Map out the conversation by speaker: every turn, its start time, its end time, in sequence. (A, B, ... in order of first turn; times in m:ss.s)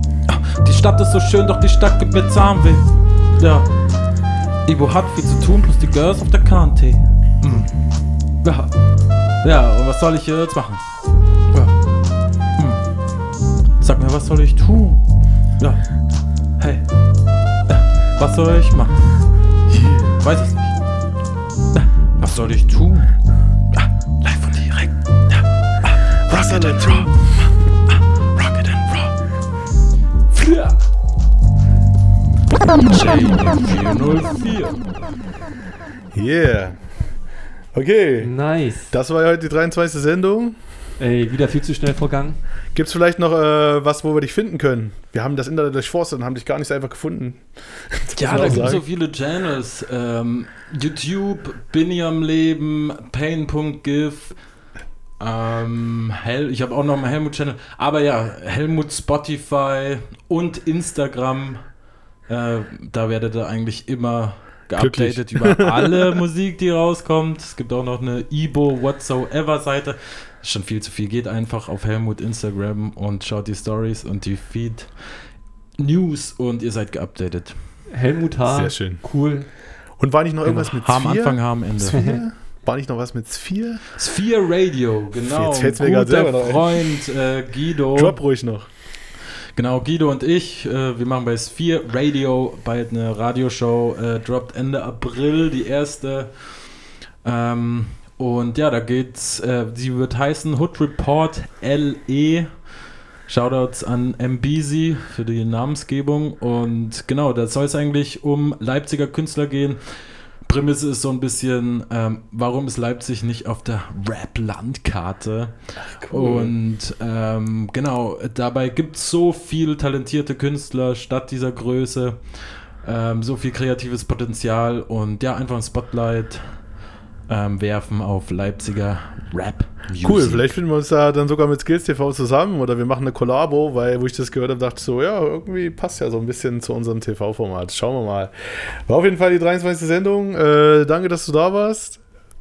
0:00.3-0:08.8 A
0:09.4-0:10.9 A
0:11.5-0:11.8 A
0:12.6-0:12.9 A
0:13.8-0:16.9 A
0:17.7-0:19.0 A
0:19.7-0:20.2 B
0:20.2-0:20.8 A
0:21.7-0:29.1 A
0:26.3-0:27.1 B
0:30.4-0:30.7 C
0:32.8-0:34.8 A
0:36.1-0:36.9 B
0:37.7-0:40.6 B
0:38.2-0:38.9 C
0:41.0-0:42.4 C
0:42.7-0:48.8 B
0:48.2-1:17.8 A
0:48.3-0:48.6 C
1:04.8-1:06.0 B
1:17.9-1:19.7 C
1:18.4-1:23.8 B
1:20.5-1:22.1 A
1:21.9-1:22.2 C
1:24.0-1:28.5 A
1:25.2-1:27.1 B
1:27.9-1:28.7 B
1:29.6-1:42.7 A
1:43.3-2:06.7 A
1:55.8-1:56.6 B
2:07.3-2:10.5 A
2:10.0-2:22.0 B